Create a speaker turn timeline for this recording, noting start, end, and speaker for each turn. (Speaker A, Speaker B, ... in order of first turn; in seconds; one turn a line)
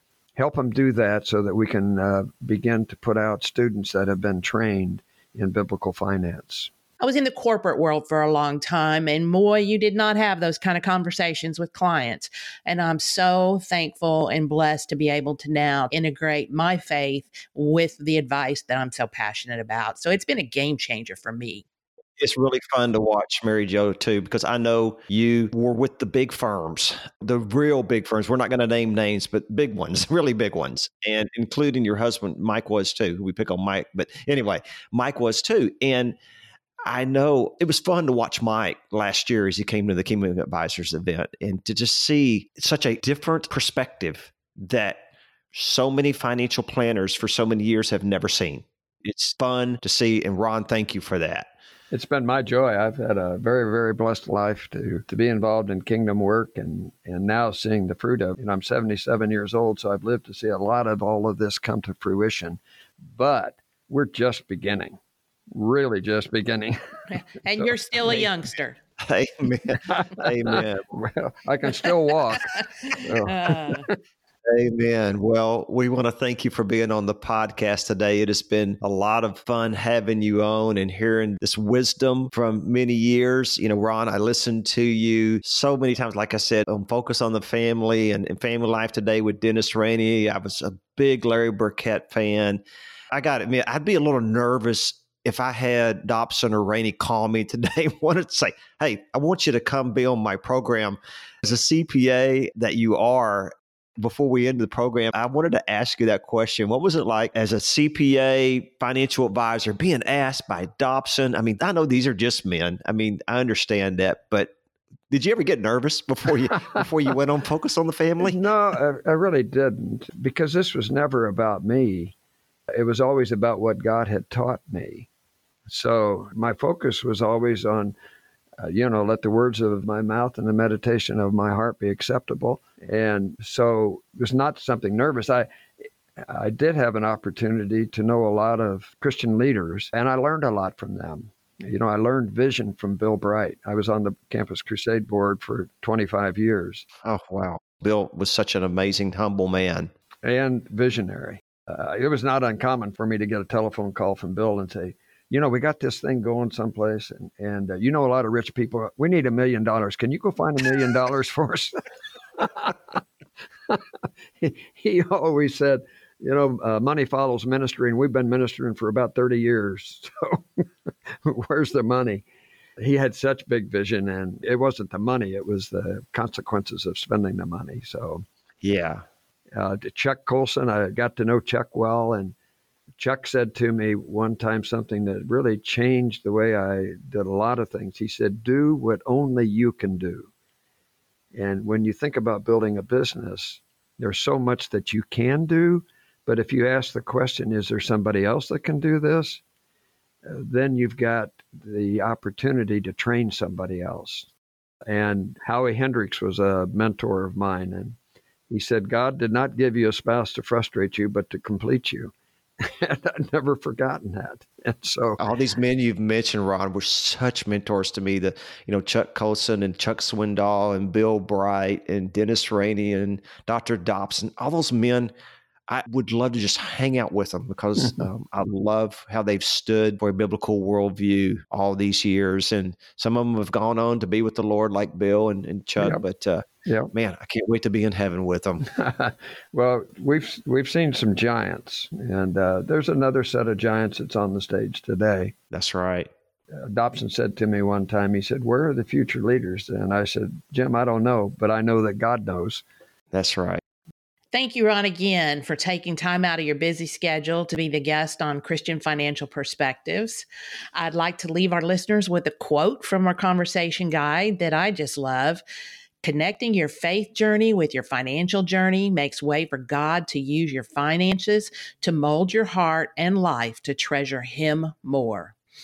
Speaker A: 0.3-6.7
Speaker B: 7.0-21.6
Speaker C: 22.2-36.1
Speaker C: 36.9-51.5
Speaker A: 51.9-65.0
Speaker A: 65.5-66.8
Speaker B: 67.1-68.8
Speaker A: 67.5-68.3
Speaker C: 69.0-70.9
Speaker A: 70.2-73.9
Speaker B: 72.5-73.9
Speaker C: 74.5-114.5
Speaker C: 115.1-118.4
Speaker A: 118.2-122.1
Speaker A: 122.7-125.1
Speaker A: 125.7-127.9
Speaker A: 128.6-135.5
Speaker A: 136.2-146.8
Speaker C: 147.0-149.9
Speaker A: 150.2-161.8
Speaker A: 162.3-163.0
Speaker A: 163.7-172.2
Speaker A: 172.8-178.2
Speaker C: 178.6-179.0
Speaker A: 179.5-182.3
Speaker A: 183.0-190.3
Speaker A: 191.3-199.4
Speaker A: 200.2-204.3
Speaker A: 204.9-208.0
Speaker A: 208.5-215.2
Speaker C: 215.2-225.1
Speaker C: 225.7-238.7
Speaker A: 236.7-236.9
Speaker A: 238.7-245.3
Speaker C: 245.5-246.1
Speaker A: 246.5-252.6
Speaker C: 253.1-253.6
Speaker B: 254.3-265.4
Speaker B: 266.0-275.3